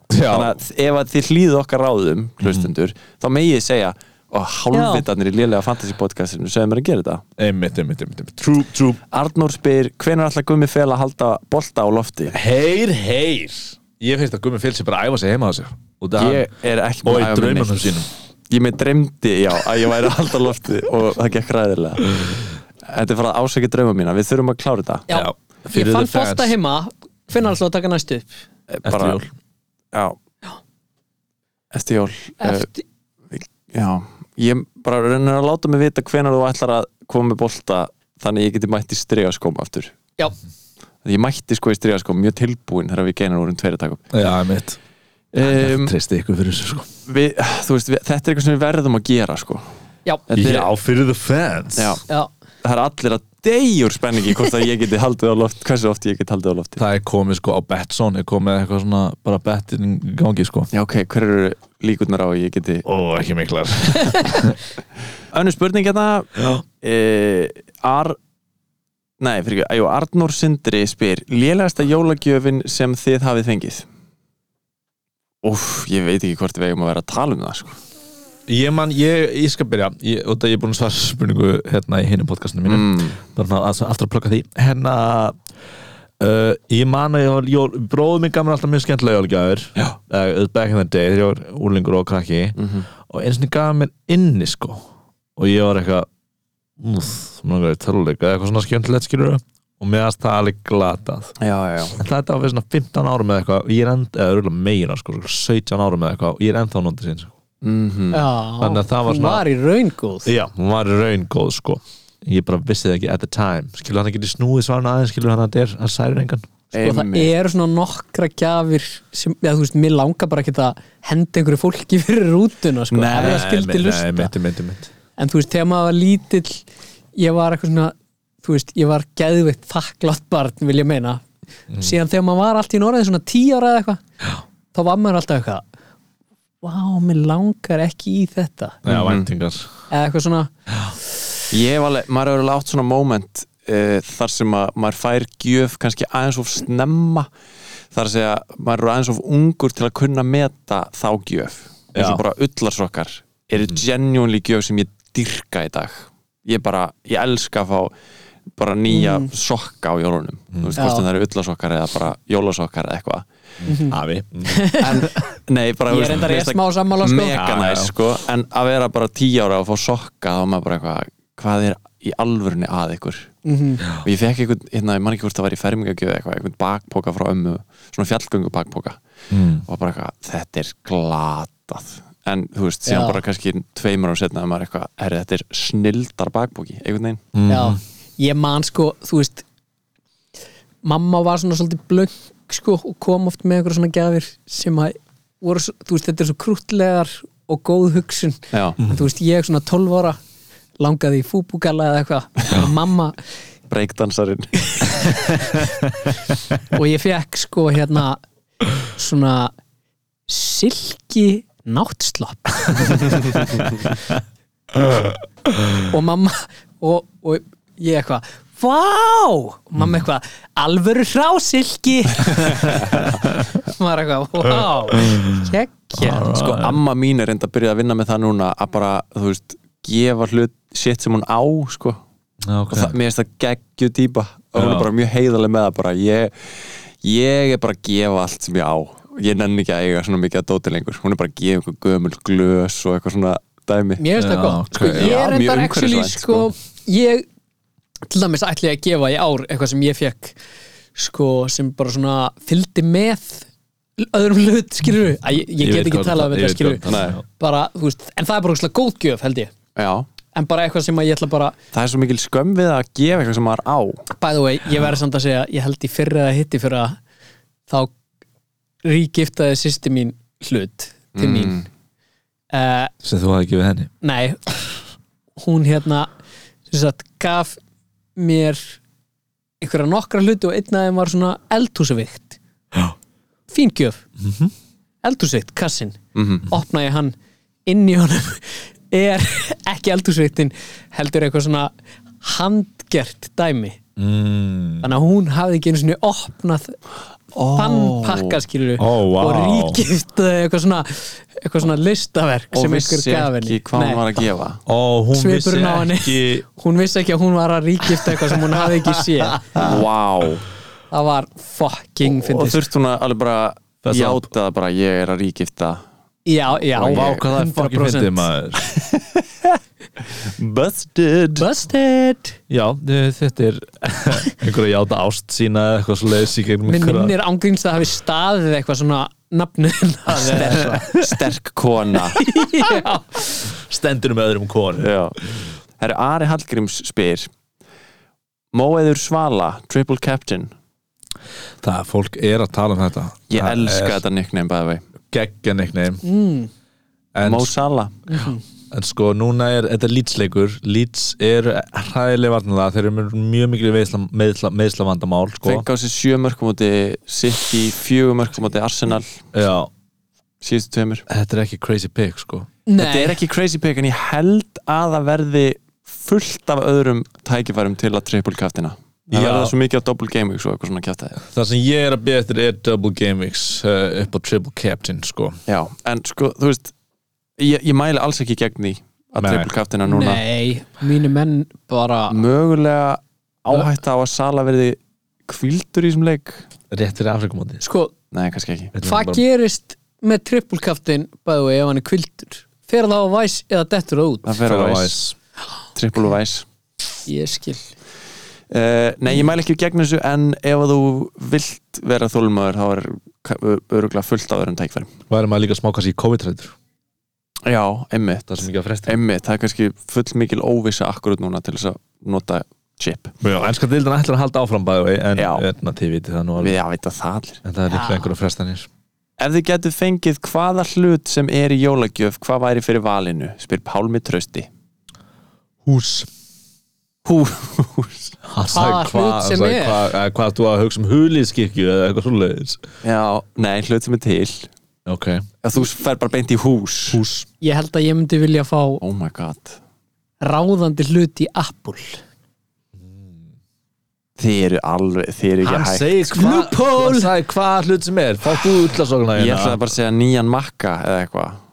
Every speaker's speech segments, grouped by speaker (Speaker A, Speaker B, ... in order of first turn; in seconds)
Speaker A: 0.1-0.6, 2.4-2.7, 7.4-9.0, 12.3-16.5, 17.0-18.1, 25.1-26.5, 28.8-29.3, 44.1-44.8, 45.4-46.9, 50.3-52.0, 56.8-60.7, 62.8-64.6, 78.5-85.4, 86.2-94.8, 95.4-96.1, 96.8-101.3, 102.0-107.3, 108.6-109.4, 110.2-116.5, 122.9-124.9, 138.8-139.7, 151.9-152.2, 160.5-160.8, 163.6-164.8, 167.3-167.9, 179.3-179.6, 187.3-187.8, 205.3-205.7, 214.8-215.2, 222.6-223.5, 224.6-226.8, 232.4-233.0, 234.5-234.9, 244.2-245.3, 255.6-257.2, 273.0-273.9, 284.2-284.5, 294.0-294.9, 298.8-299.8, 304.6-306.4, 308.1-308.7, 309.4-309.8, 313.8-314.3, 316.8-318.6, 322.5-327.1, 333.4-335.4, 341.6-344.0, 345.1-346.0, 347.1-347.5, 348.7-355.6, 359.3-359.7, 361.1-362.5, 369.1-369.5, 371.2-375.4, 379.2-379.5, 386.7-387.6, 388.7-389.2, 394.4-395.1, 405.1-406.5, 408.3-409.0, 413.2-416.6, 417.4-418.7, 425.6-426.1, 428.2-432.6, 434.9-435.2, 436.9-437.3, 442.8-443.2, 445.4-449.6
Speaker B: 0.2-7.2, 9.1-12.4, 16.2-17.9, 18.5-22.2, 22.8-25.1, 28.7-29.2, 31.7-32.7, 33.3-39.9, 41.0-44.1, 45.3-45.9, 47.1-49.6, 50.3-50.7, 51.8-52.0, 52.6-56.8, 60.7-62.9, 65.3-68.2, 69.2-73.8, 75.4-77.8, 82.7-83.2, 92.6-92.8, 101.4-102.0, 107.6-108.2, 116.7-117.3, 138.8-139.3, 141.5-147.3, 147.9-157.9, 158.6-163.2, 164.8-173.3, 173.9-179.0, 179.7-187.2, 198.5-198.8, 203.7-204.6, 226.2-232.0, 232.7-244.0, 244.7-246.5, 256.9-257.2, 259.8-260.1, 261.7-264.0, 271.1-271.6, 286.1-286.5, 297.3-298.4, 302.5-304.6, 309.6-310.4, 312.0-315.8, 316.8-317.2, 318.7-319.5, 320.2-321.5, 330.2-332.2, 334.8-335.2, 335.8-337.3, 338.5-340.5, 343.3-344.8, 347.2-348.0, 355.4-359.2, 360.4-361.1, 362.8-371.2, 375.5-376.7, 377.4-380.2, 382.1-386.4, 388.1-388.7, 394.2-395.0, 395.7-396.4, 398.5-404.9, 407.4-413.1, 415.1-415.4, 416.4-417.4, 419.2-424.5, 427.0-428.1, 432.8-434.5, 435.4-437.0, 438.8-439.6, 444.2-445.9, 449.1-451.4
Speaker C: 4.7-5.0, 25.1-28.3, 32.4-32.8, 108.1-110.3, 116.8-124.3, 125.2-131.2, 131.8-134.0, 134.7-135.6, 136.6-138.8, 139.9-140.5, 158.9-159.3, 160.8-161.1, 163.7-165.1, 165.9-167.4, 173.4-173.8, 182.8-183.2, 187.5-189.4, 190.8-200.2, 200.8-203.2, 204.7-205.6, 206.7-208.2, 208.9-209.5, 210.3-213.6, 215.8-226.3, 244.0-247.2, 248.1-250.3, 250.9-256.9, 257.4-259.5, 260.3-261.5, 264.1-267.0, 268.8-271.6, 272.5-272.9, 274.0-274.5, 275.4-276.1, 276.7-277.6, 278.1-278.8, 279.6-282.4, 283.5-284.0, 285.0-287.1, 287.6-293.8, 294.8-296.8, 297.5-304.0, 305.1-309.6, 310.9-312.6, 316.2-318.3, 321.4-322.4, 326.6-330.9, 332.1-333.4, 346.0-346.5, 348.1-348.4, 362.6-363.2, 379.8-382.2, 387.6-387.9, 388.8-394.4, 397.1-397.7, 417.7-418.1, 428.5-429.8, 437.4-438.8, 440.2-442.0, 446.1-447.1